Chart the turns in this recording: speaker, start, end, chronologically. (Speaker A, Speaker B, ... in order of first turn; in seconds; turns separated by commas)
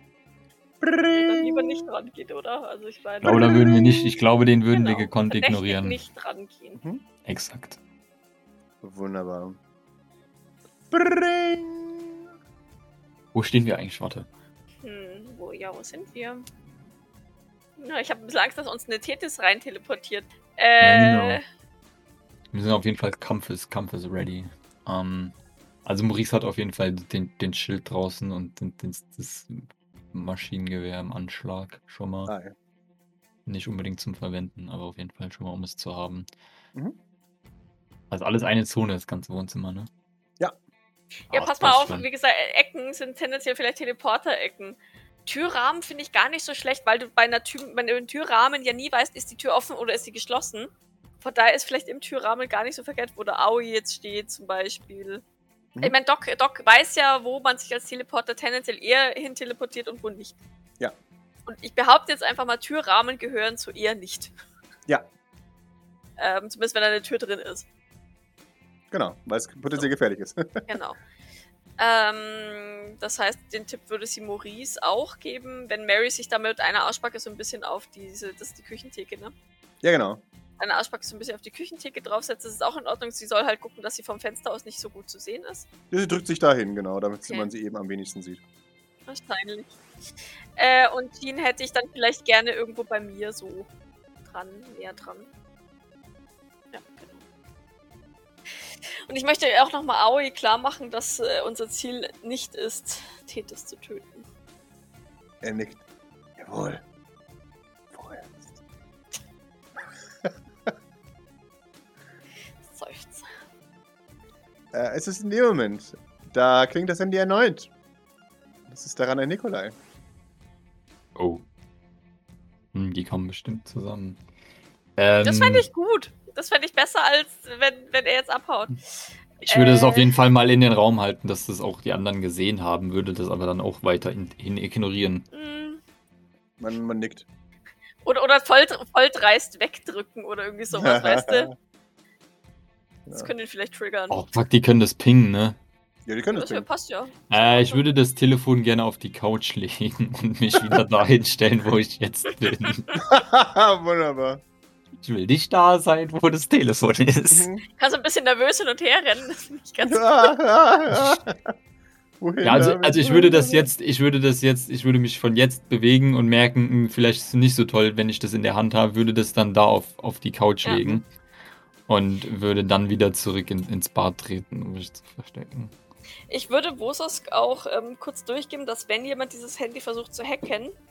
Speaker A: 0.8-1.9, Speaker B: 1.1-3.9, Speaker C: 3.2-6.0, Speaker A: 3.2-4.2, Speaker B: 4.7-6.8, Speaker A: 6.8-7.0, Speaker C: 7.3-7.8, Speaker A: 8.8-9.6, Speaker A: 10.9-12.3, Speaker C: 13.3-14.3, Speaker B: 14.8-16.5, Speaker B: 17.8-21.4, Speaker C: 20.8-21.4, Speaker C: 22.5-32.3, Speaker A: 32.3-32.5, Speaker C: 33.5-36.3, Speaker C: 38.1-39.9, Speaker C: 41.3-42.1, Speaker B: 41.3-55.2, Speaker B: 55.8-60.4, Speaker B: 61.5-64.3, Speaker B: 66.2-67.7, Speaker A: 68.9-70.7, Speaker B: 70.7-71.0, Speaker B: 71.8-79.3, Speaker A: 79.8-80.2, Speaker B: 80.6-85.7, Speaker A: 85.9-88.4, Speaker B: 89.1-89.8, Speaker B: 90.6-93.7, Speaker B: 94.3-95.3, Speaker B: 96.7-97.2, Speaker B: 99.1-104.2, Speaker A: 105.4-105.8, Speaker A: 106.4-106.8, Speaker A: 107.9-108.5, Speaker A: 110.2-110.7, Speaker B: 112.6-113.3, Speaker A: 114.7-117.7, Speaker A: 118.7-119.8, Speaker C: 121.2-121.4, Speaker C: 122.7-124.2, Speaker C: 125.0-125.7, Speaker B: 125.2-128.8, Speaker C: 129.4-135.2, Speaker B: 129.5-130.1, Speaker B: 135.3-135.8, Speaker A: 136.6-137.3, Speaker B: 138.0-141.5, Speaker A: 140.7-141.6, Speaker B: 143.1-144.2, Speaker C: 144.1-145.6, Speaker A: 146.1-146.7, Speaker B: 146.3-147.9, Speaker C: 147.3-152.9, Speaker A: 152.9-154.4, Speaker C: 155.0-157.5, Speaker A: 157.3-157.6, Speaker B: 157.8-160.4, Speaker A: 159.8-161.5, Speaker A: 162.2-163.7, Speaker C: 162.4-171.1, Speaker B: 170.6-171.0, Speaker C: 171.9-175.7, Speaker B: 176.3-180.8